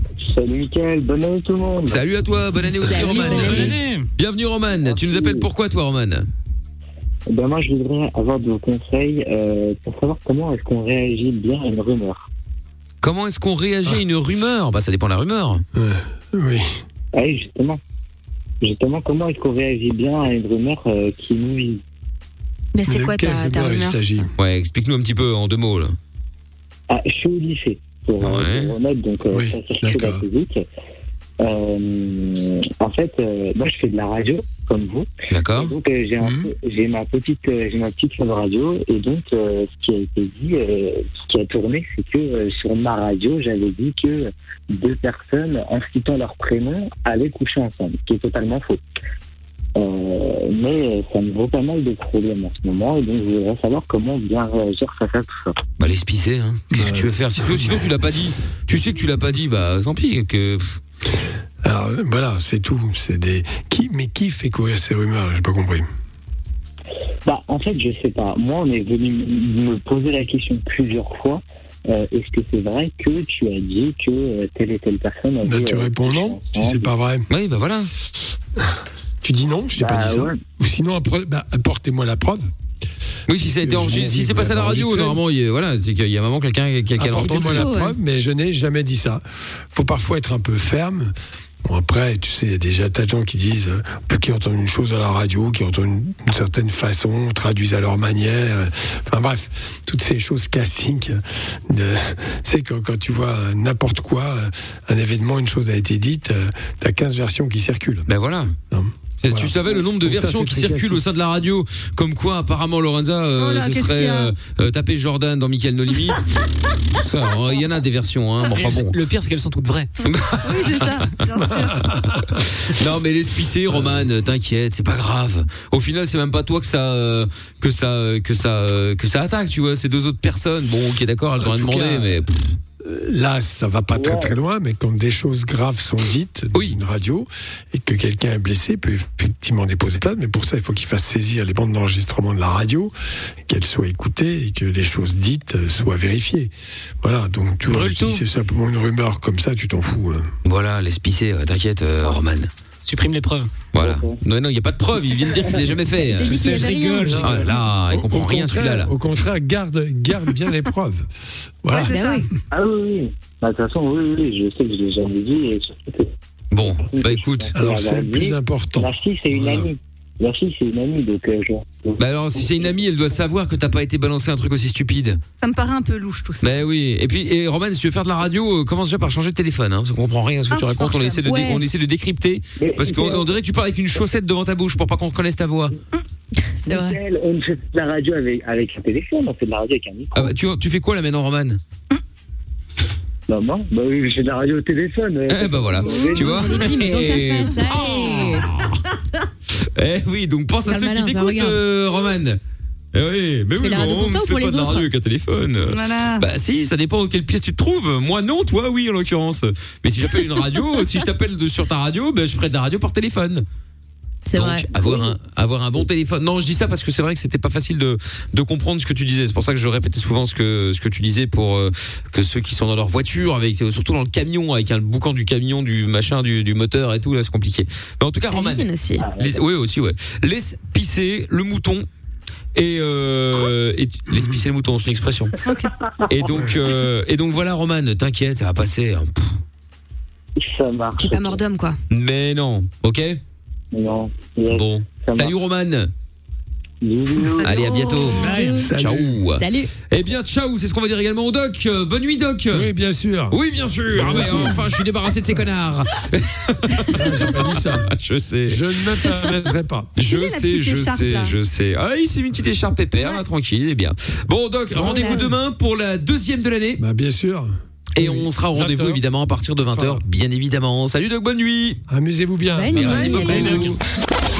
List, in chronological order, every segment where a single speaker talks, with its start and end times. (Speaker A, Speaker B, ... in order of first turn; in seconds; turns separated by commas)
Speaker A: 0.3-2.0, Speaker B: 1.8-6.3, Speaker C: 2.6-3.7, Speaker D: 3.1-4.1, Speaker A: 4.8-5.5, Speaker A: 7.3-12.3, Speaker B: 13.0-15.6, Speaker E: 15.7-16.8, Speaker A: 17.1-17.8, Speaker A: 18.6-21.8, Speaker C: 22.8-24.0, Speaker E: 22.9-24.3, Speaker B: 24.4-26.0, Speaker A: 26.9-30.7, Speaker B: 28.2-28.7, Speaker E: 29.3-30.2, Speaker A: 31.4-48.8, Speaker B: 35.3-35.7, Speaker E: 36.2-36.5, Speaker A: 49.8-55.6, Speaker B: 55.8-60.8, Speaker E: 56.7-57.8, Speaker E: 61.6-65.9, Speaker A: 67.2-76.9, Speaker E: 75.4-77.3, Speaker B: 77.3-77.9, Speaker E: 78.6-82.5, Speaker A: 79.8-80.4, Speaker B: 83.3-87.7, Speaker E: 83.6-85.2, Speaker E: 87.0-108.1, Speaker C: 87.3-87.9, Speaker B: 108.1-108.5, Speaker E: 108.7-111.0, Speaker B: 109.2-116.2, Speaker F: 113.4-114.3, Speaker B: 116.9-119.0, Speaker D: 118.5-119.9, Speaker B: 120.0-120.9, Speaker F: 120.4-121.9, Speaker E: 122.0-122.4, Speaker B: 122.5-132.5, Speaker E: 131.4-132.2, Speaker E: 132.8-142.9, Speaker A: 133.9-134.3, Speaker E: 143.5-150.3, Speaker D: 147.7-148.1, Speaker B: 147.8-148.1, Speaker B: 150.4-152.5, Speaker D: 152.8-153.6, Speaker B: 153.7-158.9, Speaker A: 153.8-154.2, Speaker C: 156.2-157.2, Speaker D: 156.2-157.4, Speaker E: 157.0-161.1, Speaker E: 161.6-161.9, Speaker F: 161.7-162.3, Speaker C: 161.8-162.3, Speaker A: 162.5-166.1, Speaker B: 166.5-167.5, Speaker A: 166.7-172.7, Speaker E: 167.6-169.7, Speaker B: 172.0-175.2, Speaker F: 175.4-176.6, Speaker B: 176.4-185.8, Speaker F: 180.5-181.2, Speaker C: 181.2-181.7, Speaker A: 182.6-183.3, Speaker C: 186.6-187.0, Speaker A: 186.7-190.3, Speaker B: 190.2-191.6, Speaker A: 193.3-196.8, Speaker B: 195.3-198.8, Speaker C: 195.9-198.5, Speaker B: 199.8-202.4, Speaker C: 200.7-201.6, Speaker B: 202.9-213.4, Speaker C: 203.6-204.9, Speaker F: 205.7-206.2, Speaker C: 214.3-215.2, Speaker B: 214.3-228.7, Speaker C: 228.3-229.1, Speaker A: 229.0-229.4, Speaker B: 229.2-231.9, Speaker B: 232.6-235.4, Speaker E: 234.1-234.4, Speaker A: 235.4-235.7, Speaker B: 236.1-239.4, Speaker E: 236.3-236.6, Speaker A: 240.4-241.4, Speaker C: 241.0-241.8, Speaker B: 241.9-243.2, Speaker A: 243.7-245.3, Speaker B: 244.5-245.9, Speaker A: 246.8-248.1, Speaker B: 247.4-252.7, Speaker F: 247.6-248.4, Speaker D: 248.1-248.7, Speaker C: 248.2-248.7, Speaker E: 248.6-249.2, Speaker C: 249.4-249.7, Speaker E: 252.5-253.4, Speaker B: 253.3-258.6, Speaker E: 253.9-254.8, Speaker E: 256.9-257.9, Speaker E: 258.5-259.9, Speaker B: 260.0-266.8, Speaker F: 260.0-261.4, Speaker C: 264.8-265.3, Speaker E: 264.8-265.1, Speaker E: 266.8-269.0, Speaker B: 268.0-271.8, Speaker E: 269.7-270.0, Speaker E: 271.9-273.7, Speaker C: 272.6-273.7, Speaker B: 272.7-273.8, Speaker F: 273.0-273.4